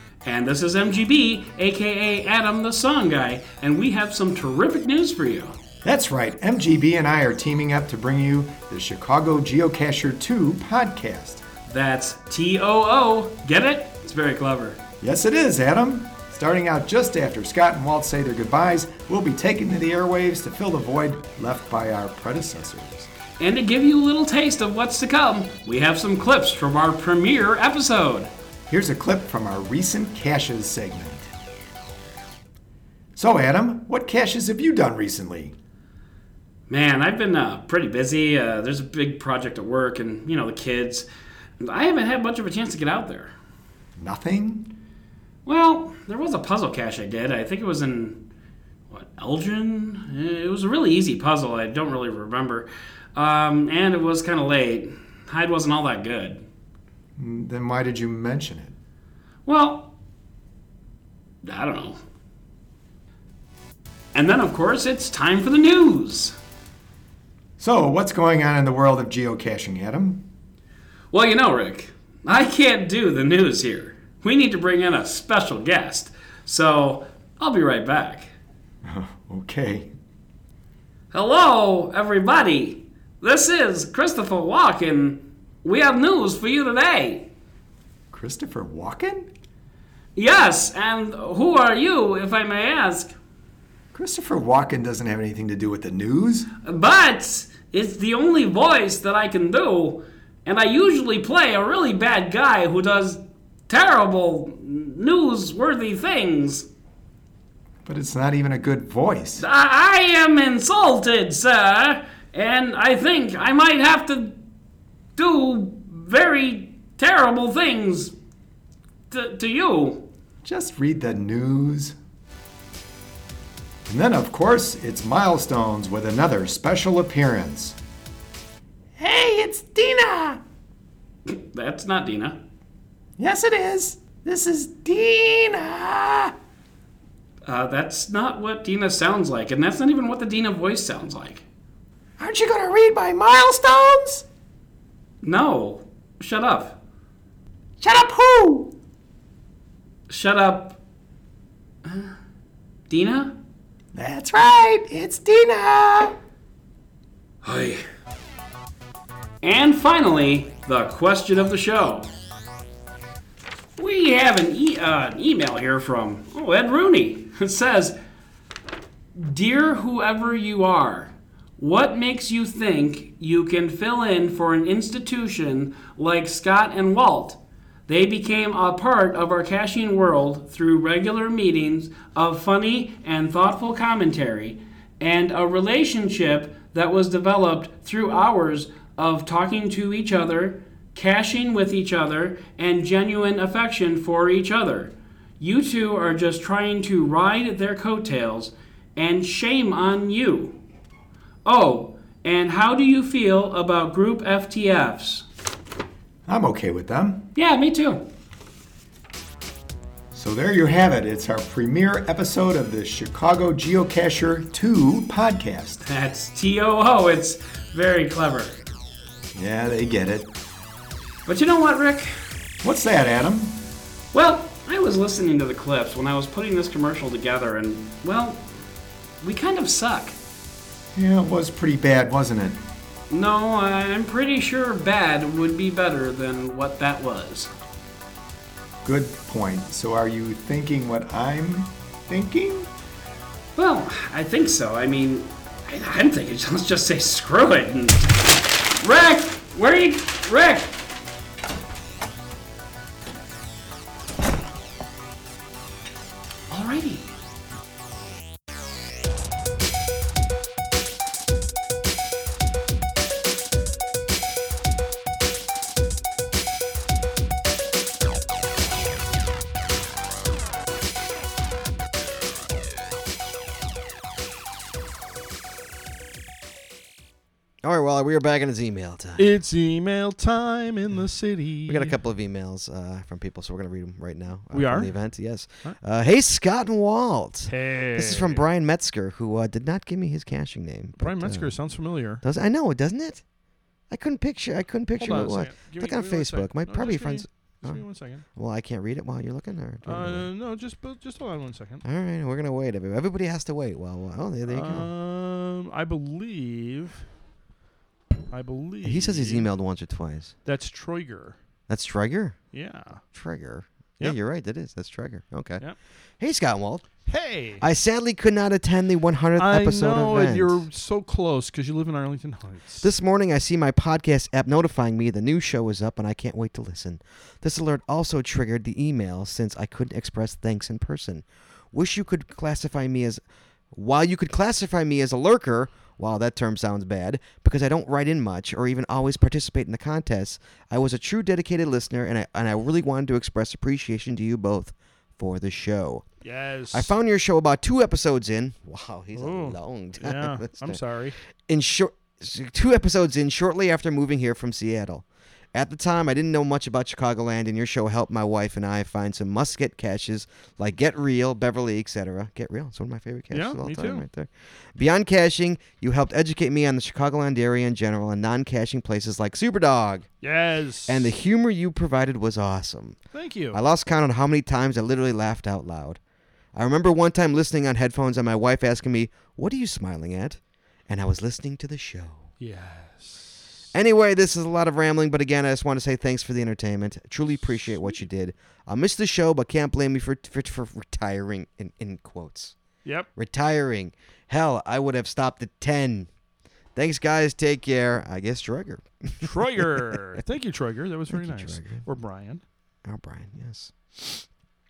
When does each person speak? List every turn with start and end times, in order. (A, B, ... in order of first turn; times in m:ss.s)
0:00.2-0:05.6 A
0:05.8-0:11.4 B
0:11.7-0:14.8 A
0:15.0-0:23.1 B
0:23.4-0:28.3 A
0:28.7-0:31.3 B
0:33.1-0:35.5 B
0:36.7-0:41.1 A
0:41.6-0:43.3 A
0:44.0-0:44.7 B
0:45.4-0:48.2 A
0:48.9-0:56.4 A
0:57.2-0:58.7 B
0:59.4-0:59.9 A
1:01.4-1:02.0 A
1:04.1-1:06.3 A
1:07.6-1:10.3 B
1:11.1-1:18.3 A
1:18.8-1:19.9 B
1:21.1-1:27.3 A
1:28.1-1:29.3 B
1:30.2-1:33.1 A
1:33.9-1:36.5 B
1:36.6-1:46.7 A
1:47.8-1:49.4 B
1:49.4-1:54.4 A
1:55.2-1:58.1 A
1:59.1-2:00.1 A
2:00.4-2:01.9 B
2:03.9-2:07.8 B
2:09.0-2:10.4 B
2:11.3-2:12.4 A
2:13.2-2:16.3 B
2:17.4-2:21.4 A
2:22.2-2:24.2 B
2:25.2-2:26.8 A
2:27.8-2:28.7 B
2:30.1-2:30.8 A
2:31.8-2:32.1 A
2:32.9-2:33.3 A
2:33.9-2:36.1 B
2:37.4-2:37.8 A
2:39.4-2:42.1 A
2:43.8-2:48.0 A
2:49.1-3:20.6 A
3:21.4-3:25.2 A
3:26.3-3:27.2 B
3:27.3-3:28.0 A
3:30.1-3:35.8 B
3:35.8-3:38.6 A
3:39.3-3:40.3 B
3:41.2-3:42.1 A
3:42.6-3:43.6 B
3:44.1-3:48.4 A
3:49.2-3:50.2 A
3:50.9-3:52.6 B
3:53.1-3:57.5 A
3:58.8-4:02.7 B
4:03.6-4:08.1 A
4:08.8-4:10.7 A
4:16.5-4:17.0 A
4:37.6-4:39.3 C
4:39.2-4:41.9 D
4:41.6-4:51.6 C
4:44.5-4:44.9 D
4:47.5-4:48.4 D
4:51.0-4:52.2 D
4:52.2-4:53.2 C
4:53.9-5:00.3 C
4:55.0-4:58.2 D
4:59.8-5:01.8 D
5:01.8-5:04.9 C
5:04.5-5:07.0 D
5:08.3-5:09.5 D
5:08.8-5:10.3 C
5:10.4-5:11.4 D
5:11.7-5:12.4 C
5:12.5-5:13.0 D
5:13.1-5:15.6 C
5:16.2-5:16.9 C
5:17.0-5:17.6 D
5:17.6-5:20.6 C
5:19.4-5:22.9 D
5:22.8-5:46.1 C
5:46.2-5:46.9 D
5:46.7-5:50.8 C
5:49.1-5:51.2 D
5:51.5-6:10.1 C
6:03.3-6:04.0 D
6:10.2-6:11.1 D
6:10.8-6:13.0 C
6:13.1-6:13.6 D
6:13.5-6:16.0 C
6:16.5-6:22.3 C
6:22.4-6:23.5 D
6:23.7-6:32.5 C
6:33.2-6:36.1 C
6:36.7-6:40.0 C
6:39.2-6:42.4 D
6:41.1-6:41.8 C
6:42.8-6:44.2 C